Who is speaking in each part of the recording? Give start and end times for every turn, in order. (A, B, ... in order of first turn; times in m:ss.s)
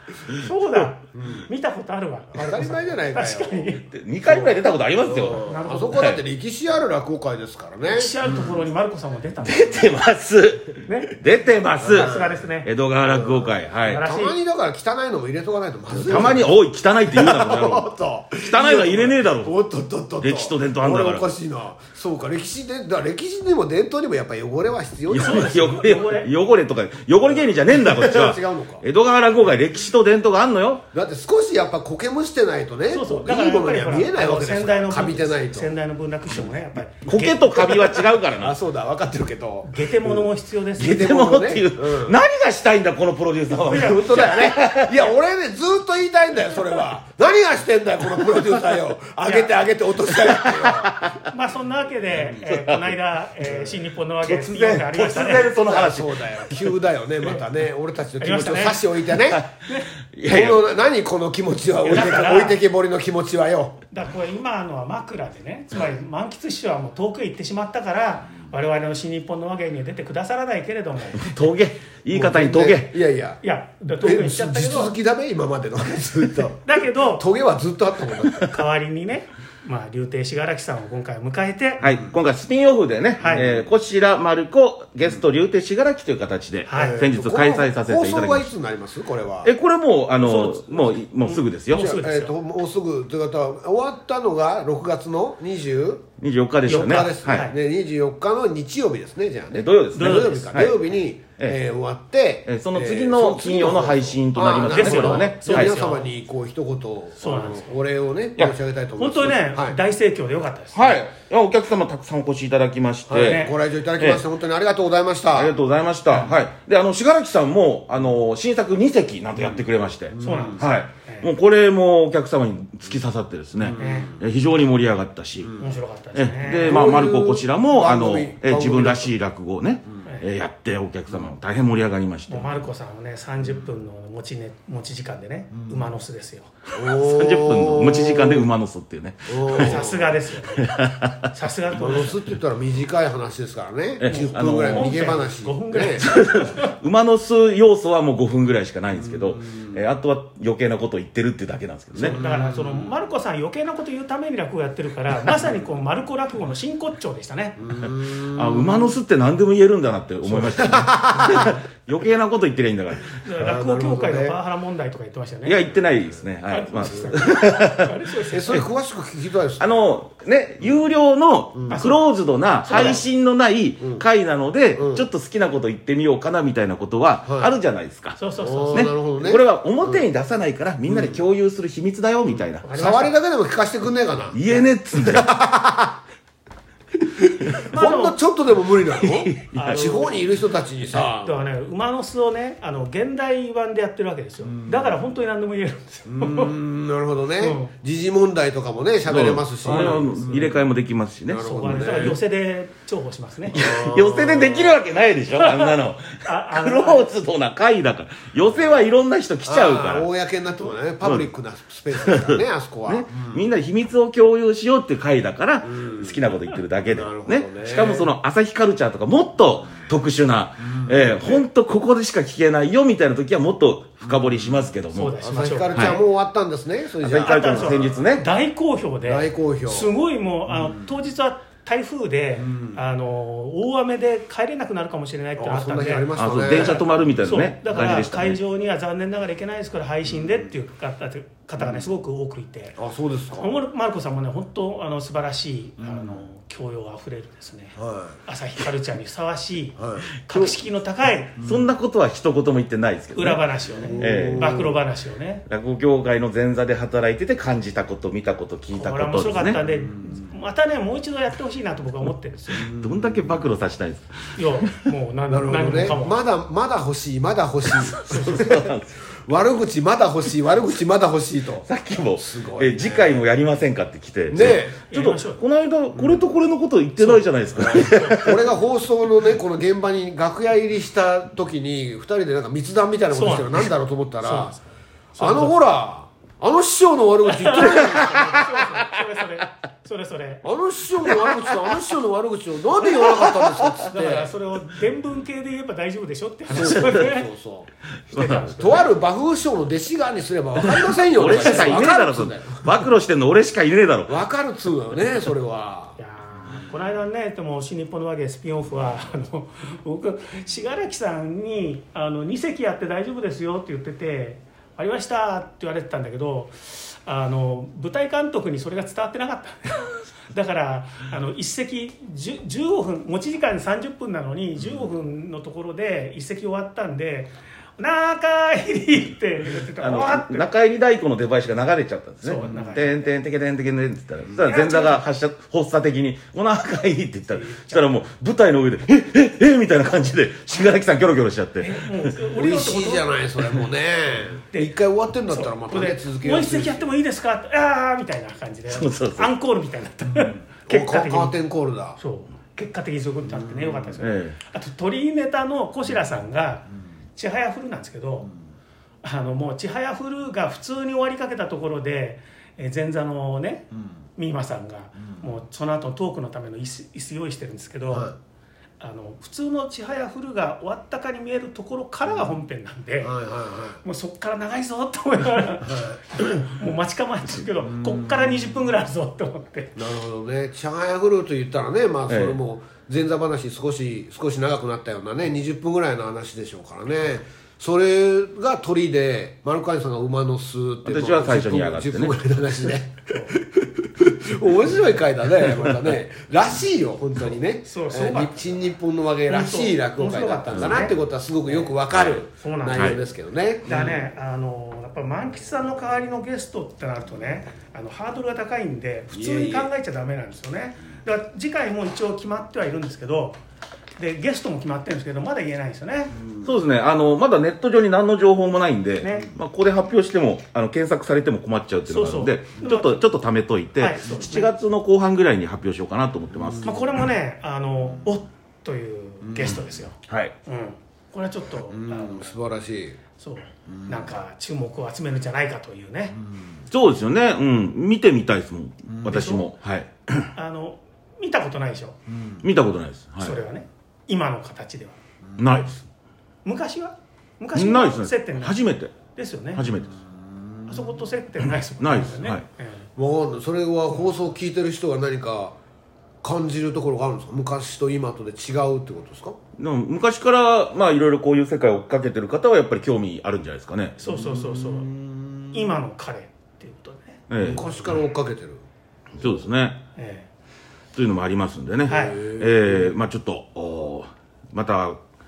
0:00.3-0:03.9 A
0:01.1-0:01.5 B
0:02.4-0:08.5 B
0:03.9-0:06.2 C
0:05.4-0:06.1 A
0:07.8-0:09.9 A
0:09.4-0:12.1 C
0:10.9-0:11.2 A
0:11.8-0:12.7 A
0:11.8-0:12.4 B
0:12.6-0:14.0 C
0:13.1-0:16.6 B
0:13.9-0:14.4 A
0:15.9-0:19.5 C
0:17.1-0:25.7 B
0:20.2-0:21.3 C
0:25.1-0:30.8 C
0:25.1-0:26.3 A
0:27.3-0:28.8 B
0:30.9-0:35.7 B
0:32.9-0:38.0 A
0:37.0-0:38.6 C
0:38.4-0:40.3 B
0:39.7-0:41.2 A
0:40.8-0:45.1 C
0:40.8-0:42.2 B
0:43.6-0:51.0 B
0:43.7-0:44.3 A
0:49.2-0:49.5 A
0:50.1-0:51.3 C
0:51.3-0:55.5 A
0:52.3-0:53.0 C
0:53.4-0:53.8 B
0:54.2-0:56.8 C
0:55.4-0:59.4 B
0:58.2-0:59.0 A
0:59.3-1:00.6 C
1:00.3-1:03.8 B
1:01.8-1:02.6 A
1:03.9-1:11.3 A
1:11.2-1:13.0 C
1:12.1-1:13.4 B
1:13.4-1:14.9 A
1:14.0-1:18.5 B
1:16.6-1:17.3 A
1:18.4-1:21.8 A
1:21.8-1:28.5 C
1:23.2-1:23.5 A
1:23.2-1:23.6 B
1:26.7-1:27.0 A
1:26.7-1:29.5 B
1:29.4-1:31.9 C
1:30.2-1:32.3 A
1:31.7-1:36.0 B
1:36.2-1:37.5 C
1:36.7-1:37.6 A
1:36.7-1:49.8 B
1:39.5-1:40.9 C
1:40.0-1:40.5 A
1:42.5-1:45.8 C
1:44.7-1:46.1 A
1:47.2-1:47.8 A
1:49.0-1:51.0 A
1:50.7-1:53.5 C
1:53.1-1:55.5 B
1:53.2-1:53.6 A
1:54.0-1:54.2 C
1:55.3-2:05.6 C
1:59.4-2:00.7 B
2:00.2-2:01.3 A
2:03.6-2:04.2 B
2:03.8-2:04.1 A
2:05.6-2:06.9 A
2:06.2-2:12.7 C
2:06.6-2:09.1 B
2:12.3-2:16.5 A
2:15.6-2:15.9 B
2:16.7-2:18.5 B
2:16.8-2:19.9 C
2:19.3-2:20.2 B
2:19.5-2:20.7 A
2:20.6-2:21.3 C
2:21.3-2:22.2 A
2:21.7-2:26.1 B
2:24.0-2:25.1 C
2:24.1-2:26.8 A
2:26.0-2:32.2 C
2:29.0-2:29.8 B
2:31.9-2:33.0 B
2:32.0-2:37.8 A
2:37.6-2:39.0 B
2:38.2-2:43.2 C
2:40.3-2:41.6 B
2:43.2-2:45.7 A
2:43.4-2:44.4 B
2:45.4-2:47.9 C
2:46.5-2:48.6 A
2:48.3-2:49.8 B
2:49.6-2:58.2 C
2:51.6-2:51.8 B
2:51.7-2:52.0 A
2:52.7-2:53.0 A
2:52.7-2:53.0 B
2:54.8-2:55.1 B
2:57.3-2:57.5 B
2:58.2-2:58.9 A
2:58.4-3:00.0 B
2:58.7-3:02.7 C
3:00.9-3:01.2 B
3:02.6-3:03.1 A
3:02.7-3:04.4 B
3:04.3-3:05.3 C
3:04.9-3:06.0 B
3:07.0-3:11.4 B
3:07.7-3:08.2 A
3:09.0-3:10.0 C
3:09.5-3:10.2 A
3:10.9-3:16.6 A
3:14.5-3:14.9 B
3:16.1-3:20.6 B
3:17.4-3:17.7 A
3:19.1-3:22.1 C
3:19.7-3:20.6 A
3:21.3-3:22.2 B
3:21.4-3:23.8 A
3:23.5-3:24.8 B
3:23.5-3:30.1 C
3:25.4-3:27.1 A
3:29.5-3:33.4 B
3:31.9-3:45.2 C
3:35.6-3:36.2 B
3:36.8-3:38.1 B
3:40.8-3:41.4 B
3:44.9-3:46.0 A
3:45.2-3:48.0 B
3:45.7-3:46.0 C
3:47.0-3:48.3 C
3:47.2-4:02.8 A
3:49.0-3:49.9 B
3:50.5-3:50.8 B
3:52.4-3:52.8 B
3:55.4-3:56.8 B
3:56.2-3:58.4 C
4:01.6-4:01.9 B
4:02.8-4:03.5 B
4:03.4-4:11.4 A
4:05.8-4:06.2 B
4:07.8-4:08.2 B
4:09.8-4:10.1 B
4:11.4-4:13.4 C
4:13.2-4:15.4 A
4:13.7-4:14.8 B
4:14.0-4:14.7 C
4:15.5-4:19.6 C
4:18.7-4:22.7 A
4:19.7-4:20.1 B
4:22.6-4:23.4 B
4:22.6-4:24.8 C
4:24.4-4:26.2 A
4:25.3-4:28.7 B
4:27.7-4:29.0 C
4:28.1-4:28.4 A
4:29.3-4:33.2 B
4:31.7-4:38.5 C
4:34.3-4:34.8 B
4:34.9-4:35.4 A
4:35.9-4:36.2 B
4:37.0-4:38.2 A
4:37.6-4:44.6 B
4:43.1-4:43.7 A
4:44.2-4:45.6 A
4:45.2-4:48.7 B
4:47.3-4:50.4 A
4:47.7-4:48.3 C
4:50.4-4:54.3 B
4:52.9-4:53.8 C
4:53.9-4:57.3 A
4:56.5-4:57.7 B
4:56.6-4:57.0 C
4:58.1-4:58.6 C
4:58.1-4:58.9 A
4:58.6-5:02.8 B
5:00.6-5:04.2 C
5:04.1-5:06.0 B
5:06.0-5:30.5 A
5:29.8-5:42.1 C
5:32.2-5:33.1 A
5:34.4-5:35.0 A
5:37.4-5:37.8 A
5:41.6-5:43.1 A
5:42.3-5:46.9 B
5:45.3-5:51.4 A
5:48.7-5:49.3 C
5:50.2-5:52.0 B
5:52.0-5:58.3 A
5:53.3-5:53.9 B
5:54.0-5:54.4 C
5:59.0-6:08.1 A
6:07.9-6:08.2 B
6:08.8-6:13.2 A
6:13.0-6:13.8 B
6:13.8-6:19.8 A
6:15.6-6:16.0 B
6:17.8-6:18.2 B
6:19.8-6:44.0 B
6:22.1-6:22.4 C
6:30.9-6:32.2 C
6:33.1-6:33.4 A
6:37.6-6:38.6 A
6:39.3-6:41.0 A
6:41.5-6:41.8 A
6:41.9-6:42.2 C
6:42.4-6:43.0 A
6:42.7-6:43.0 C
6:43.6-6:53.4 A
6:49.1-6:49.7 B
6:54.0-6:56.2 A
6:56.2-6:56.5 B
6:56.4-7:06.8 C
6:59.0-6:59.3 A
7:01.9-7:03.1 A
7:03.8-7:04.5 A
7:06.4-7:06.7 B
7:06.6-7:12.3 A
7:09.2-7:09.6 B
7:10.1-7:10.3 C
7:11.7-7:13.0 B
7:13.2-7:16.2 A
7:13.7-7:14.0 B
7:16.7-7:20.3 C
7:19.1-7:19.5 A
7:20.4-7:22.0 A
7:22.1-7:22.4 B
7:22.4-7:23.4 C
7:23.2-7:25.0 A
7:25.4-7:25.8 C
7:26.4-7:28.6 A
7:27.6-7:29.0 C
7:29.1-7:29.7 A
7:29.6-7:29.9 C
7:30.1-7:30.6 B
7:30.7-7:32.9 A
7:31.8-7:32.4 C
7:33.0-7:35.6 B
7:36.2-7:39.4 B
7:39.6-7:44.0 C
7:44.0-7:44.9 A
7:44.0-7:45.5 B
7:45.5-7:47.2 A
7:47.3-7:47.7 C
7:47.4-7:48.6 B
7:49.2-7:49.8 C
7:50.0-7:50.3 A
7:50.9-7:55.0 C
7:51.9-7:52.2 A
7:51.9-7:52.9 B